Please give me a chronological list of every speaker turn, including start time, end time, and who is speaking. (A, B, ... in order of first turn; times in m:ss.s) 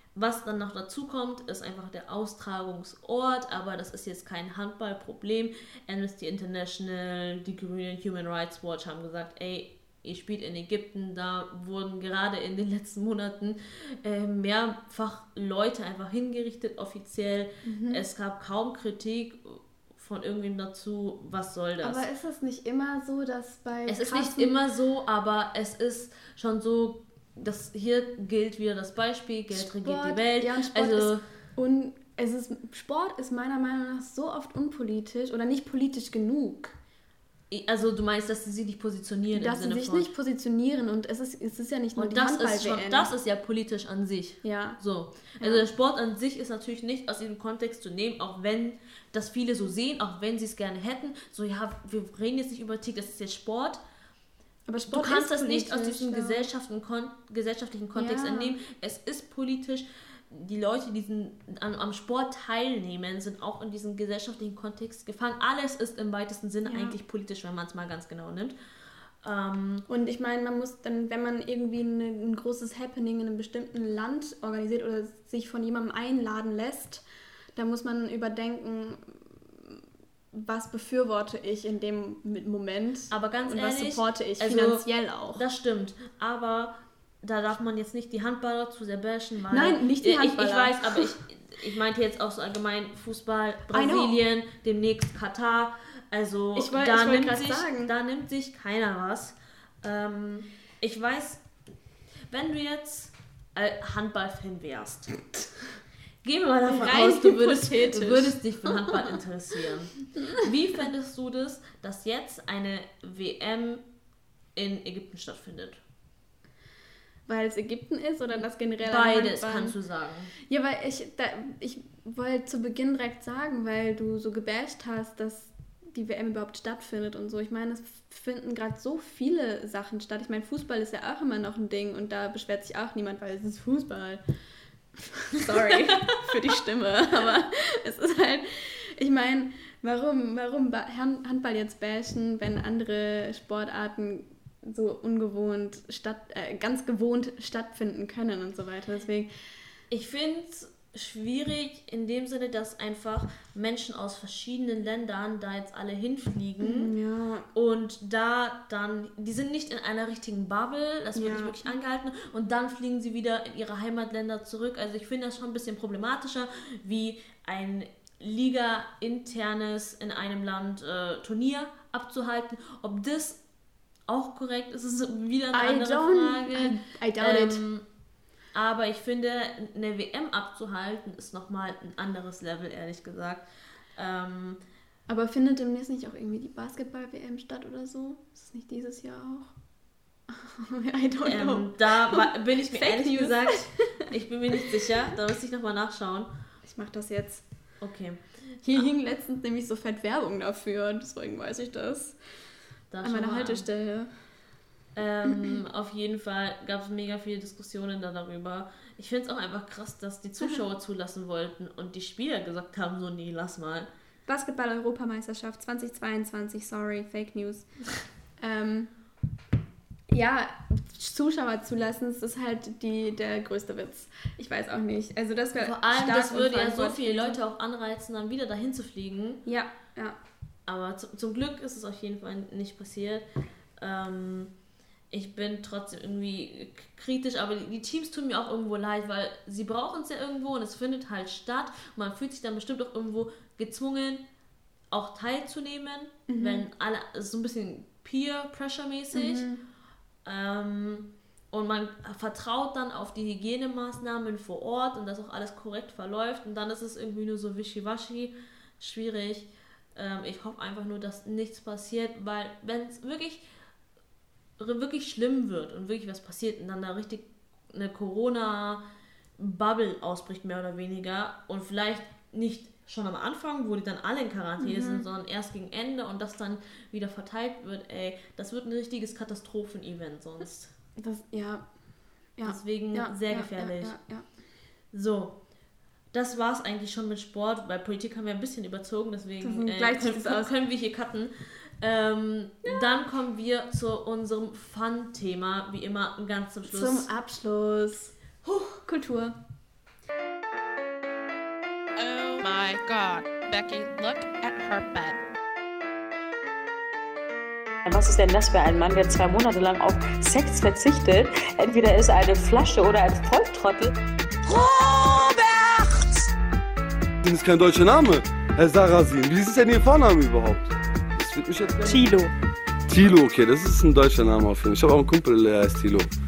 0:00.1-0:22.0 A
0:17.6-0:18.0 B
0:21.8-0:24.6 B
0:23.9-0:31.2 A
0:29.5-0:36.7 B
0:37.5-0:40.1 A
0:39.3-0:43.1 B
0:42.0-0:53.8 A
0:44.4-0:44.8 B
0:45.4-0:45.6 B
0:54.7-0:56.5 B
0:54.9-1:08.6 A
0:58.0-0:58.6 B
1:06.7-1:07.0 B
1:09.2-1:09.9 A
1:09.9-1:17.0 B
1:17.6-1:19.1 B
1:20.3-1:25.4 B
1:23.1-1:41.4 A
1:29.5-1:31.1 B
1:33.7-1:34.2 B
1:36.6-1:37.9 B
1:42.3-1:45.1 A
1:46.2-1:53.8 A
1:46.7-1:48.4 B
1:54.6-1:55.8 A
1:57.3-1:59.7 B
1:58.8-2:00.3 A
2:00.5-2:14.2 B
2:15.3-2:29.3 B
2:29.9-2:36.9 A
2:36.6-2:37.5 B
2:37.5-2:53.4 A
2:41.1-2:41.6 B
2:54.1-2:57.8 A
2:55.5-2:57.6 B
2:58.5-3:04.6 A
3:05.1-3:09.5 B
3:10.3-3:13.7 B
3:11.2-3:16.3 A
3:16.7-3:17.4 B
3:17.8-3:18.9 A
3:18.6-3:22.2 B
3:22.9-3:23.7 A
3:23.0-3:24.1 B
3:25.0-3:33.9 A
3:34.3-3:37.7 B
3:38.4-3:38.9 B
3:40.1-3:47.4 B
3:45.6-3:49.4 A
3:49.4-3:50.2 B
3:50.7-3:53.2 A
3:53.8-3:54.5 A
3:55.1-4:04.2 A
4:04.9-4:09.5 A
4:06.3-4:06.6 B
4:09.1-4:09.6 B
4:10.2-4:23.4 A
4:24.6-4:28.8 A
4:29.4-4:40.7 A
4:34.6-4:35.0 B
4:41.0-4:41.7 B
4:42.4-4:44.3 B
4:42.4-4:44.0 A
4:44.9-4:45.4 A
4:46.1-4:57.1 A
4:49.4-4:50.5 B
4:56.7-4:58.1 B
4:58.4-4:58.8 A
4:58.8-4:59.4 B
5:02.0-5:05.2 C
5:07.9-5:13.9 D
5:14.5-5:16.2 D
5:17.2-5:20.7 E
5:21.2-5:22.1 E
5:21.8-5:22.3 D
5:22.9-5:26.1 E